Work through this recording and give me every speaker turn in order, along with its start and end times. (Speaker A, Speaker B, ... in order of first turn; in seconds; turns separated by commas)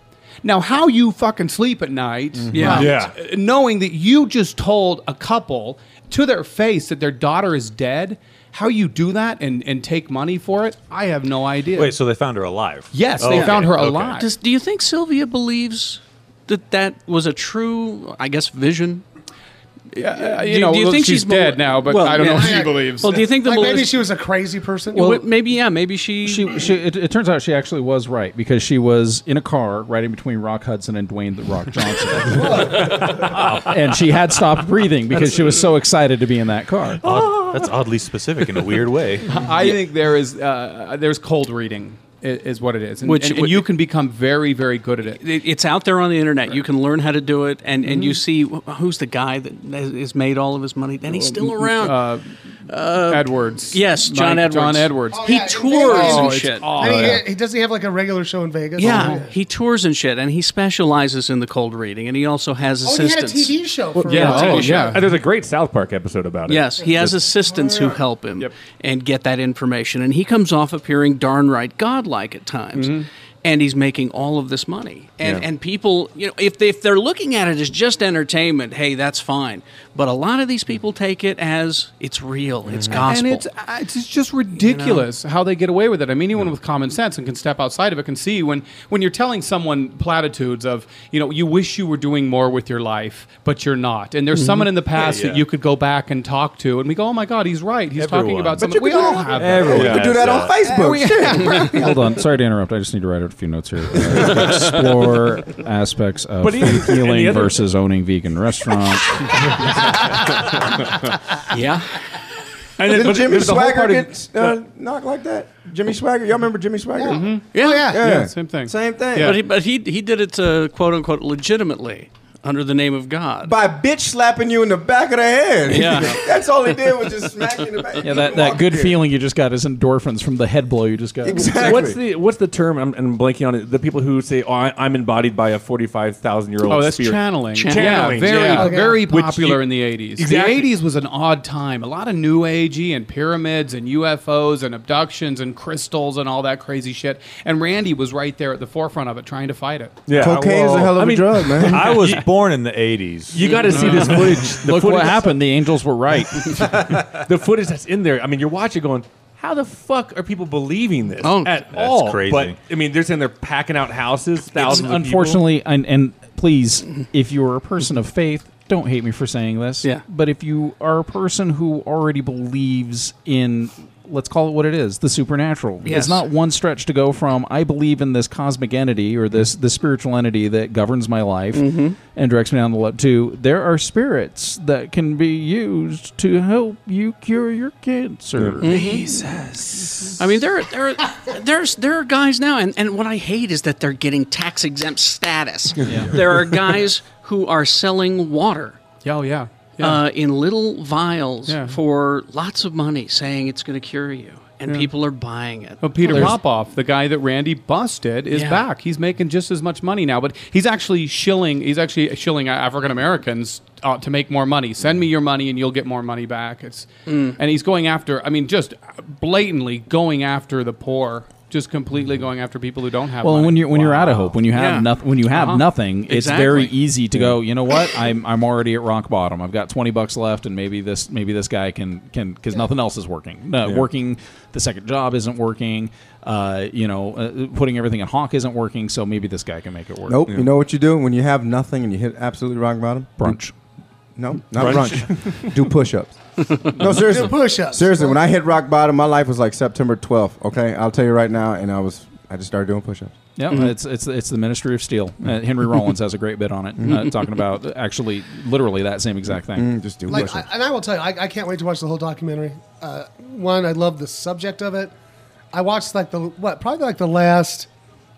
Speaker A: 0.4-12.0, Speaker B: 2.5-2.9, Speaker C: 2.6-3.1, Speaker D: 11.7-14.2, Speaker A: 12.9-14.3, Speaker B: 13.2-19.0, Speaker A: 19.9-23.2, Speaker B: 19.9-24.1, Speaker E: 22.1-25.2, Speaker B: 24.9-26.6, Speaker F: 26.2-32.7, Speaker E: 32.3-33.2, Speaker C: 32.9-33.3, Speaker F: 33.4-37.0, Speaker D: 37.0-39.3, Speaker A: 39.2-45.2, Speaker B: 43.0-43.7, Speaker B: 45.0-52.1, Speaker A: 47.8-48.2, Speaker A: 51.1-52.3, Speaker B: 52.7-57.2, Speaker A: 53.0-57.3, Speaker E: 55.1-59.3, Speaker B: 58.8-63.5, Speaker A: 58.8-59.2, Speaker E: 62.8-64.9, Speaker A: 64.0-65.1, Speaker B: 64.0-65.0, Speaker C: 64.3-67.2, Speaker B: 66.5-83.5, Speaker E: 66.8-68.0, Speaker A: 72.7-73.1, Speaker G: 82.7-83.0, Speaker A: 82.9-101.9, Speaker B: 84.6-85.1, Speaker B: 94.3-94.7, Speaker D: 95.0-95.4, Speaker D: 98.0-98.7, Speaker G: 98.6-101.8, Speaker D: 99.3-100.5, Speaker C: 99.6-100.5, Speaker F: 101.5-109.3, Speaker G: 104.1-104.4, Speaker C: 106.4-107.6, Speaker B: 111.5-112.0, Speaker C: 112.8-113.4, Speaker A: 112.8-114.0, Speaker G: 112.9-117.3, Speaker E: 117.0-117.7, Speaker A: 117.1-119.4, Speaker B: 117.5-118.0, Speaker G: 117.9-119.4, Speaker B: 119.2-123.5, Speaker G: 123.4-129.0, Speaker B: 125.7-126.2, Speaker F: 128.0-131.5, Speaker G: 131.2-132.0, Speaker C: 131.5-140.7, Speaker A: 136.6-150.8, Speaker B: 137.5-138.7, Speaker E: 138.4-139.0, Speaker C: 150.1-152.2, Speaker G: 150.1-152.1, Speaker D: 151.6-153.6, Speaker C: 153.3-155.4, Speaker A: 153.7-154.4, Speaker F: 154.4-156.8, Speaker C: 156.4-165.4, Speaker B: 161.2-161.6, Speaker D: 161.7-162.6, Speaker F: 164.5-189.1, Speaker B: 175.8-176.2, Speaker B: 181.5-182.0, Speaker C: 188.4-188.6, Speaker B: 188.6-189.1, Speaker B: 190.2-198.8, Speaker C: 195.8-196.4, Speaker F: 195.9-196.1, Speaker A: 199.0-200.0, Speaker B: 199.8-206.4, Speaker A: 201.5-201.8, Speaker A: 205.8-224.3, Speaker B: 208.3-208.7, Speaker B: 217.1-217.4, Speaker F: 223.2-240.2, Speaker B: 224.5-224.9, Speaker A: 225.3-225.6, Speaker B: 226.1-226.7, Speaker G: 240.1-243.4, Speaker F: 243.2-243.5, Speaker G: 244.2-253.1, Speaker C: 244.6-245.5, Speaker E: 246.8-248.2, Speaker F: 253.3-260.3, Speaker G: 256.8-257.1, Speaker G: 259.5-260.4, Speaker E: 260.1-264.9, Speaker E: 265.5-267.7